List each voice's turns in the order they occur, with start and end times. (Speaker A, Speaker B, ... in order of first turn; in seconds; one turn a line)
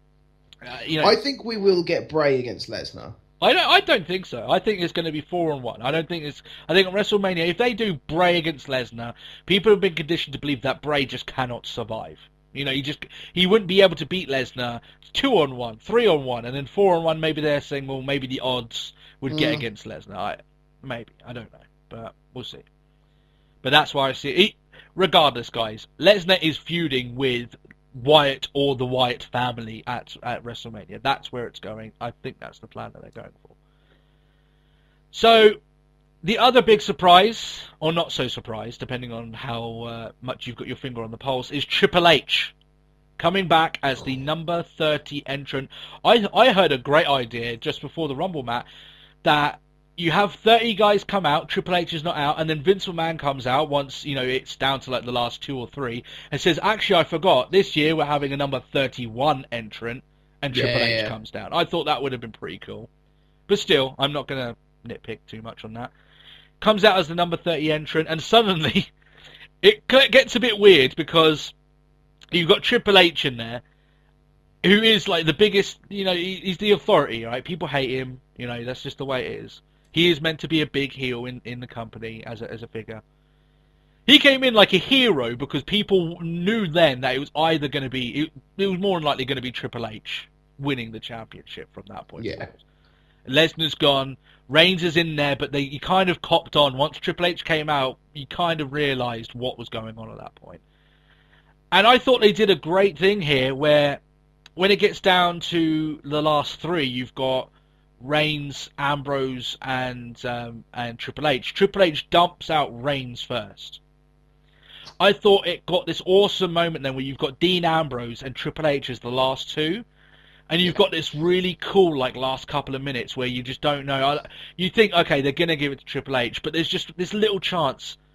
Speaker A: 0.6-1.2
Speaker B: 1.0-3.1
Speaker A: 3.4-22.6
Speaker B: 19.3-19.6
Speaker A: 23.6-33.6
Speaker A: 35.1-35.6
Speaker A: 36.2-42.5
Speaker A: 43.2-48.6
Speaker A: 49.2-62.9
Speaker B: 60.5-61.1
Speaker A: 63.5-65.9
Speaker A: 66.6-68.9
Speaker A: 69.6-71.5
Speaker A: 72.3-73.6
Speaker A: 74.6-83.0
Speaker A: 84.1-92.6
Speaker B: 92.2-92.5
Speaker A: 93.2-100.6
Speaker A: 101.7-104.0
Speaker A: 104.6-113.8
Speaker A: 115.0-119.8
Speaker A: 120.5-128.0